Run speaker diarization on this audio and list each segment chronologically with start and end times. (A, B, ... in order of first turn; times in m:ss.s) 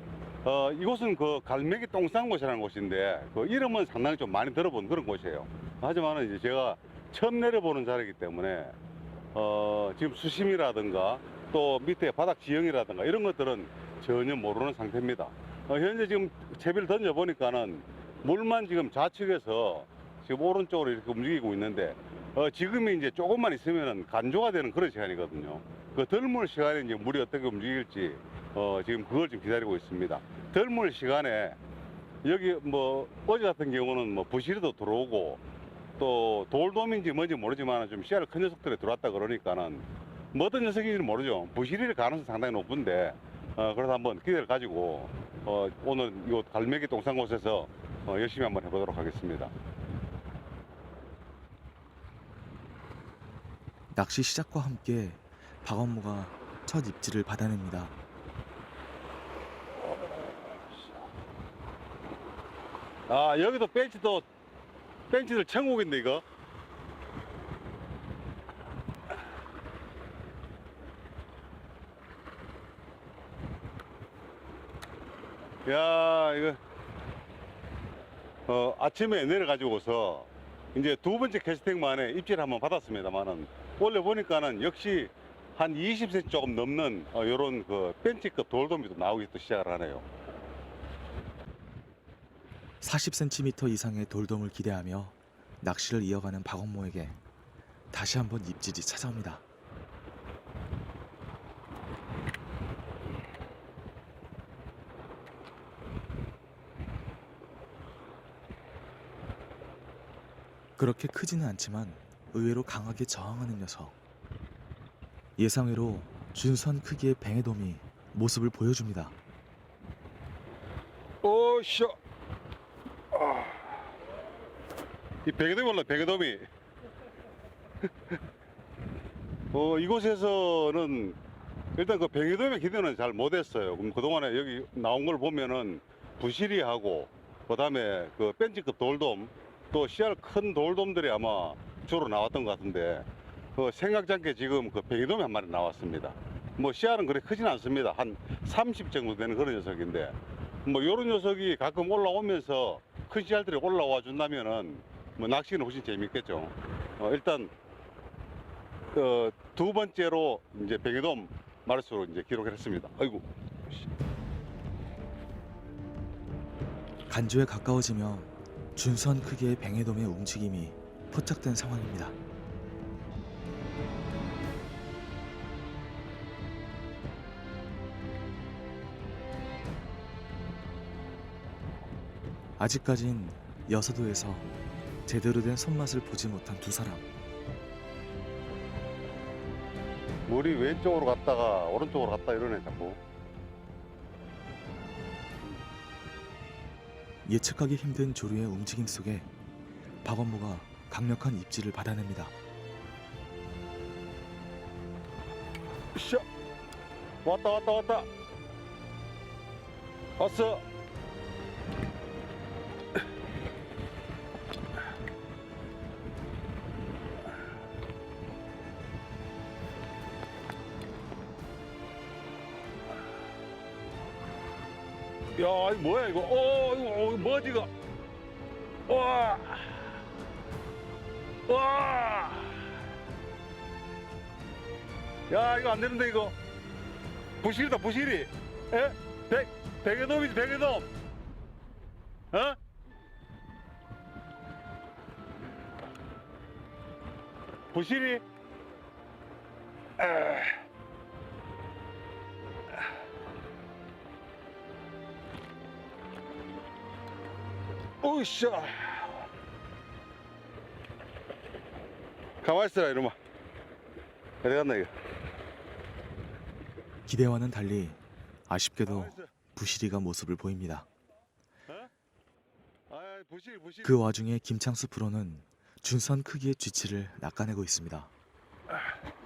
0:00.4-0:08.8 A
0:09.3-0:31.6 A
0:32.2-0:35.4 A
0:36.0-0:49.5 A
0:53.9-0:57.9 B
1:03.1-1:04.2 A
1:05.1-1:06.2 A
1:15.7-1:16.6 A
1:18.5-1:30.1 A
1:32.8-1:37.2 B
1:37.9-1:39.4 B
1:50.8-1:53.9 B
1:55.4-1:59.2 B
2:01.2-2:02.0 A
2:03.1-2:03.6 A
2:05.2-2:06.4 A
2:09.5-2:11.2 A
2:11.8-2:37.5 A
2:38.9-2:43.2 A
2:47.1-2:52.2 B
3:02.6-3:04.5 B
3:05.1-3:07.1 B
3:10.3-3:13.0 A
3:17.2-3:19.3 B
3:20.0-3:22.3 B
3:25.9-3:26.2 A
3:27.2-3:28.1 A
3:30.2-3:30.6 A
3:45.4-3:47.7 A
3:48.9-3:49.9 A
3:51.5-3:52.6 A
3:55.3-3:56.4 A
3:57.4-4:00.9 A
4:02.3-4:02.6 A
4:07.7-4:08.2 A
4:10.0-4:10.5 A
4:18.0-4:19.1 A
4:22.4-4:23.1 A
4:24.4-4:24.9 A
4:27.1-4:30.9 B
4:28.8-4:29.3 A
4:32.9-4:34.1 A
4:33.8-4:38.1 B